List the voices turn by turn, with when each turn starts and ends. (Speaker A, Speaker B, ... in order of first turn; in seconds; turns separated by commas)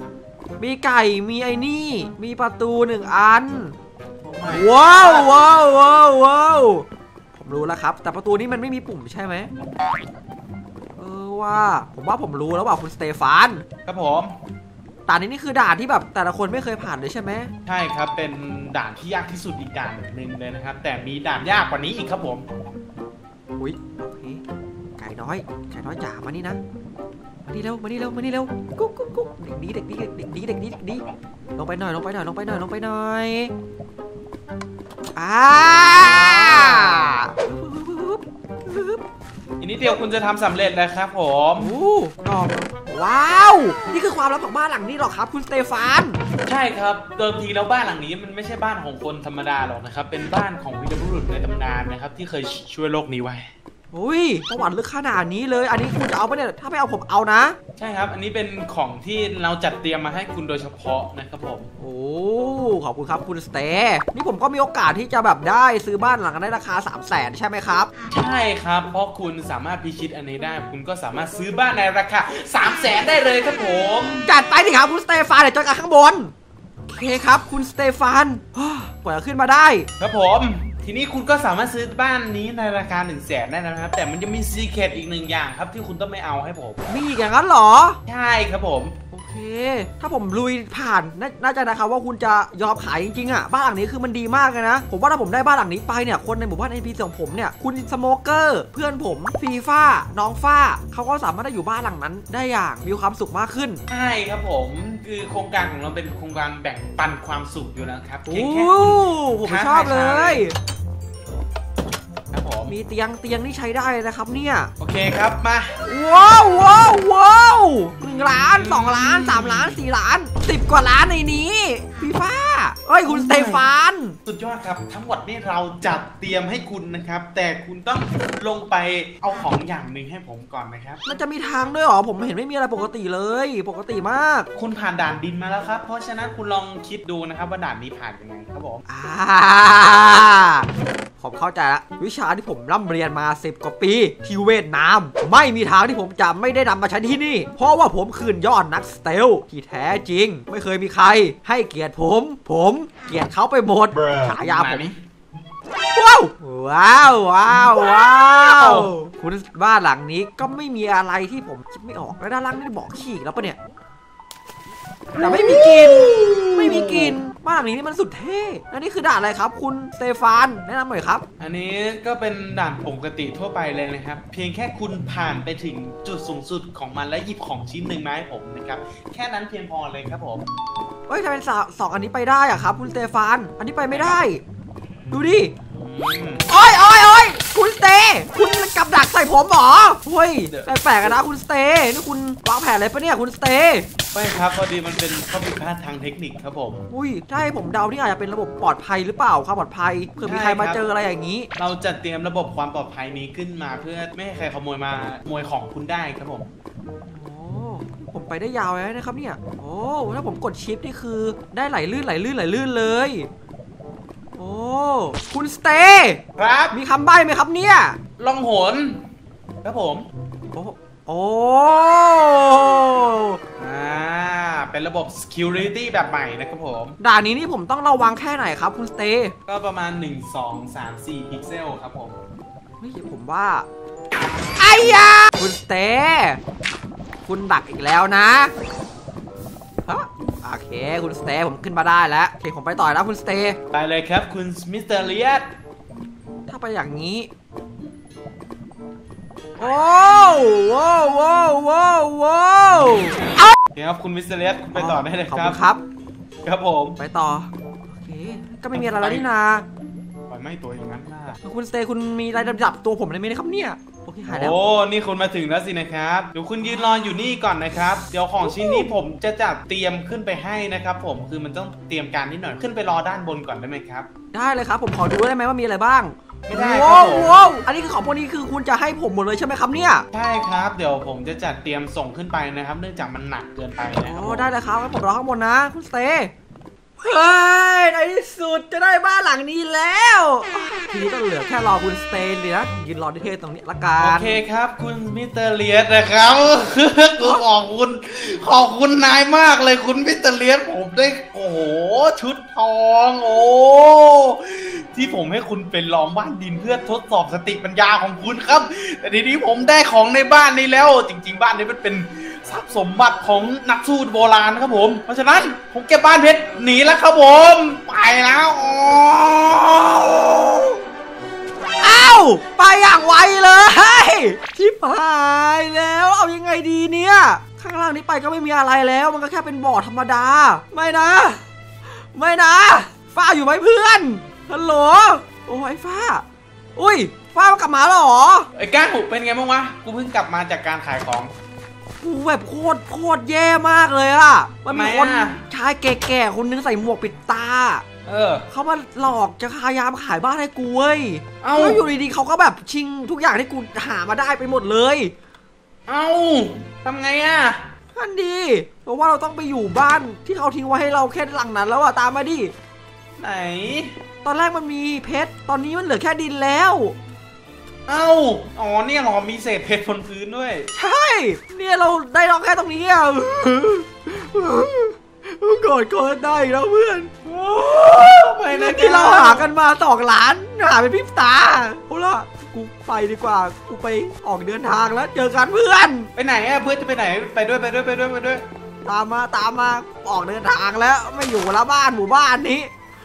Speaker A: 0.6-3.8, Speaker B: 4.2-5.4, Speaker A: 4.5-9.5, Speaker A: 11.0-13.6, Speaker B: 13.8-14.3, Speaker A: 15.1-17.5, Speaker B: 17.6-22.4, Speaker A: 23.6-24.4, Speaker A: 25.0-26.6, Speaker A: 27.5-31.0, Speaker A: 31.6-33.5, Speaker A: 35.1-39.0, Speaker B: 35.9-37.3, Speaker B: 39.6-41.8, Speaker A: 41.6-46.2, Speaker B: 46.5-53.5, Speaker A: 53.9-57.5, Speaker B: 57.8-61.7, Speaker A: 61.8-67.9, Speaker B: 68.1-74.3, Speaker A: 74.2-76.3, Speaker A: 76.9-79.9, Speaker B: 80.0-86.8, Speaker A: 86.9-88.0, Speaker B: 88.0-88.9, Speaker A: 89.1-103.8, Speaker B: 103.9-110.5, Speaker A: 108.2-110.5, Speaker B: 112.3-112.7, Speaker A: 112.7-114.7, Speaker B: 114.8-115.8, Speaker A: 115.8-124.2, Speaker B: 118.0-119.8, Speaker B: 123.0-123.6, Speaker B: 124.2-131.0, Speaker A: 131.0-134.5, Speaker B: 134.5-138.8, Speaker A: 138.9-140.7, Speaker A: 141.2-154.9, Speaker B: 154.1-155.0, Speaker A: 155.9-163.6, Speaker B: 157.6-158.9, Speaker B: 165.2-167.2, Speaker A: 165.2-171.2, Speaker B: 171.4-180.5, Speaker A: 181.1-184.4, Speaker B: 183.9-184.2, Speaker A: 185.1-185.5, Speaker B: 185.7-186.4, Speaker A: 186.5-193.9, Speaker B: 190.5-191.1, Speaker B: 194.1-196.8, Speaker A: 196.9-201.5, Speaker B: 200.2-200.8, Speaker B: 201.6-206.5, Speaker A: 207.1-213.3, Speaker A: 214.3-218.0, Speaker B: 216.4-216.8, Speaker B: 218.2-219.0, Speaker B: 219.6-220.1, Speaker A: 220.5-223.4, Speaker B: 223.6-227.0, Speaker A: 227.0-229.3, Speaker B: 229.4-232.2, Speaker A: 232.8-233.7, Speaker A: 234.6-236.4, Speaker A: 237.2-238.5, Speaker A: 239.8-243.6, Speaker B: 243.7-245.5, Speaker A: 246.5-247.3, Speaker A: 249.6-253.5, Speaker B: 253.7-255.6, Speaker A: 254.7-255.8, Speaker B: 256.4-257.0, Speaker A: 257.0-259.6, Speaker B: 258.7-259.2, Speaker B: 260.3-261.4, Speaker A: 261.4-264.6, Speaker B: 264.3-274.1, Speaker A: 274.3-280.1, Speaker B: 276.5-277.4, Speaker B: 280.1-284.5, Speaker A: 284.0-286.3, Speaker A: 287.0-294.4, Speaker B: 294.0-320.8, Speaker A: 321.8-336.2, Speaker A: 336.8-338.5, Speaker B: 338.5-341.3, Speaker A: 342.0-347.8, Speaker B: 344.7-345.4, Speaker B: 348.1-348.5, Speaker A: 348.5-355.1, Speaker B: 351.4-351.9, Speaker B: 355.9-357.7, Speaker A: 357.9-362.5, Speaker B: 363.2-364.0, Speaker A: 364.2-366.9, Speaker B: 367.9-370.7, Speaker A: 370.7-377.4, Speaker B: 377.3-379.5, Speaker A: 377.9-386.1, Speaker B: 386.1-388.4, Speaker A: 388.8-392.7